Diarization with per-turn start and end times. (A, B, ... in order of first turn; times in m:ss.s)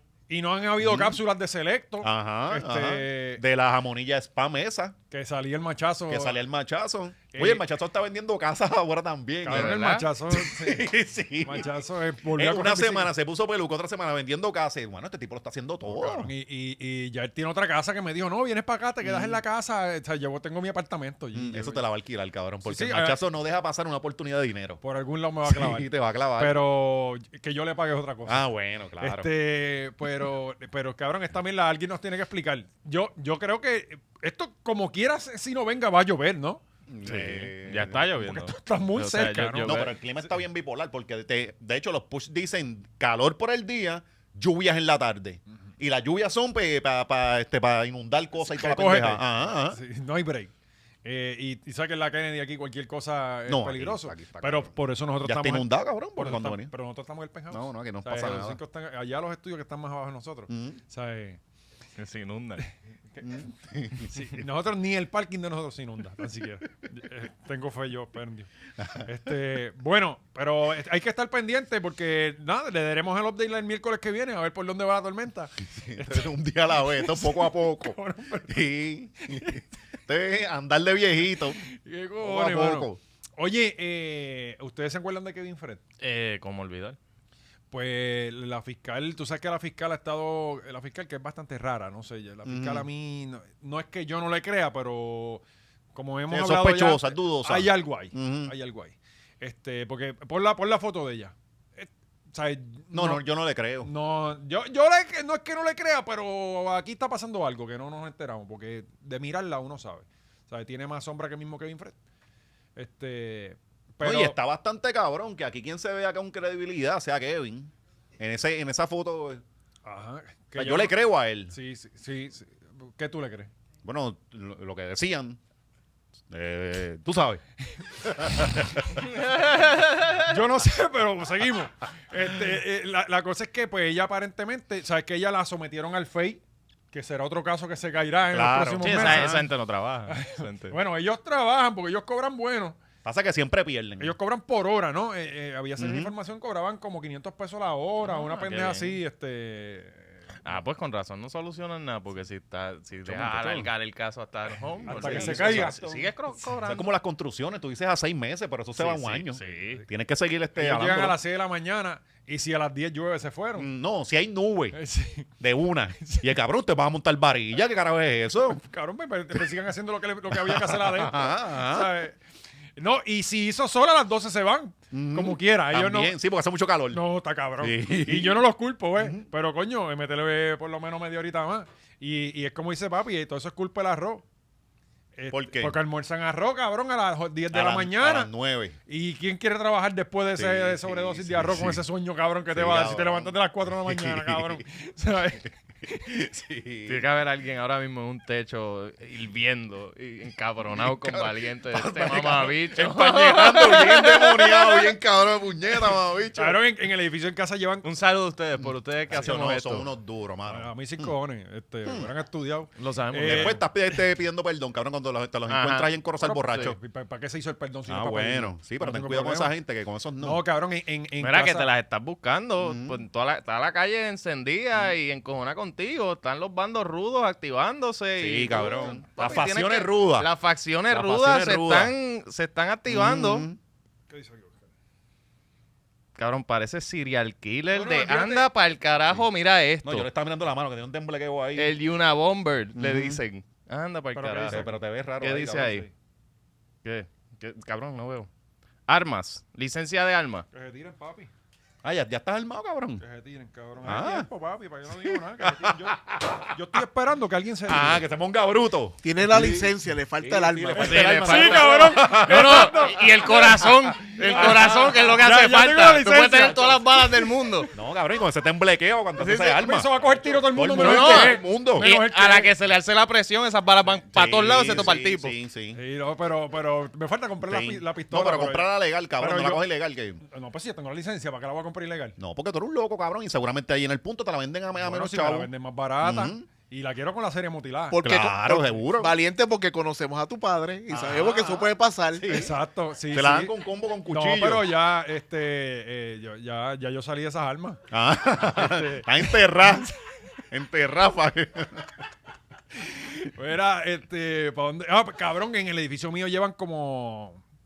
0:00.3-0:03.4 A
0:00.8-0:01.2 B
0:02.0-0:05.0 B
0:05.1-0:06.4 A
0:06.1-0:11.7 B
0:07.3-0:07.6 A
0:09.4-0:10.9 A
0:09.5-0:10.0 C
0:11.4-0:13.1 A
0:12.3-0:16.3 B
0:15.9-0:21.8 A
0:19.0-0:19.4 B
0:21.3-0:24.8 B
0:22.6-0:23.2 A
0:24.8-0:28.4 A
0:25.4-0:26.6 B
0:28.2-0:29.3 B
0:29.0-0:36.6 A
0:36.9-0:38.1 B
0:37.0-0:39.9 C
0:38.2-0:39.9 A
0:39.6-0:49.8 B
0:48.4-0:50.5 A
0:51.0-1:01.4 A
0:53.5-0:56.7 B
0:57.5-0:58.6 B
1:00.5-1:00.8 B
1:02.0-1:02.7 C
1:03.2-1:04.4 B
1:04.0-1:08.5 A
1:08.8-1:09.1 B
1:09.0-1:18.6 A
1:15.7-1:21.6 B
1:21.6-1:25.8 A
1:22.2-1:23.0 B
1:26.0-1:27.0 C
1:27.7-1:35.4 A
1:32.4-1:32.9 B
1:35.9-1:43.2 A
1:36.3-1:38.5 B
1:42.9-1:43.9 B
1:43.8-1:52.0 A
1:52.8-1:54.4 A
1:54.0-1:59.4 B
1:59.9-2:01.0 A
2:00.5-2:01.5 B
2:01.5-2:03.5 A
2:03.8-2:05.4 B
2:06.3-2:07.4 B
2:08.0-2:09.0 B
2:09.1-2:10.3 C
2:10.2-2:19.5 A
2:18.3-2:19.4 B
2:18.8-2:20.8 C
2:20.1-2:22.8 A
2:23.0-2:24.1 B
2:24.0-2:30.2 A
2:25.8-2:26.1 B
2:28.0-2:29.0 C
2:30.4-2:36.9 C
2:33.0-2:33.7 B
2:34.8-2:35.8 B
2:34.9-2:36.1 A
2:36.6-2:41.2 B
2:38.8-2:39.8 C
2:39.4-2:39.8 A
2:40.6-2:43.7 A
2:43.6-2:44.8 B
2:44.7-2:45.3 A
2:45.4-2:48.6 B
2:48.5-2:52.2 A
2:50.3-2:51.9 B
2:52.8-2:56.1 A
2:54.9-2:57.0 B
2:56.9-3:04.2 A
2:57.6-2:58.4 B
2:59.0-2:59.2 B
3:05.2-3:08.3 A
3:05.3-3:05.8 B
3:07.5-3:08.8 B
3:08.9-3:15.9 A
3:10.3-3:11.8 B
3:12.5-3:14.6 B
3:15.8-3:17.0 B
3:16.9-3:24.9 C
3:20.7-3:26.6 B
3:26.4-3:27.9 A
3:27.8-3:29.9 C
3:29.1-3:31.1 B
3:30.5-3:33.6 A
3:32.8-3:33.6 C
3:33.2-3:36.8 B
3:35.5-3:35.9 C
3:36.2-3:39.5 A
3:37.9-3:40.4 B
3:40.2-3:41.7 A
3:41.2-3:53.5 C
3:42.6-3:43.0 B
3:48.2-3:50.3 B
3:50.9-3:51.9 B
3:52.9-3:53.6 B
3:54.1-3:54.6 A
3:56.2-4:00.1 C
3:57.7-3:58.5 A
3:59.8-4:01.8 B
4:01.5-4:04.6 C
4:02.8-4:03.2 B
4:04.1-4:04.8 A
4:04.5-4:05.9 B
4:05.2-4:05.9 C
4:06.8-4:08.3 C
4:08.9-4:10.4 C
4:10.5-4:11.3 A
4:11.8-4:13.0 B
4:13.0-4:18.0 A
4:13.8-4:14.3 B
4:14.9-4:16.5 B
4:17.7-4:24.8 B
4:19.0-4:21.4 D
4:20.8-4:27.1 A
4:20.8-4:27.7 C
4:27.7-4:31.9 B
4:29.2-4:32.5 A
4:30.7-4:35.4 C
4:34.1-4:35.8 B
4:35.7-4:39.6 A
4:37.4-4:40.2 B
4:40.2-4:42.2 A
4:42.2-4:45.5 B
4:44.8-4:48.0 A
4:46.0-4:46.5 B
4:47.9-4:52.3 D
4:48.0-4:49.2 B
4:50.9-4:52.5 B
4:52.3-4:53.5 A
4:53.1-4:54.7 B
4:54.1-4:57.8 A
4:57.9-5:00.0 B
4:58.5-4:59.4 A
5:00.5-5:02.0 B
5:02.8-5:07.4 A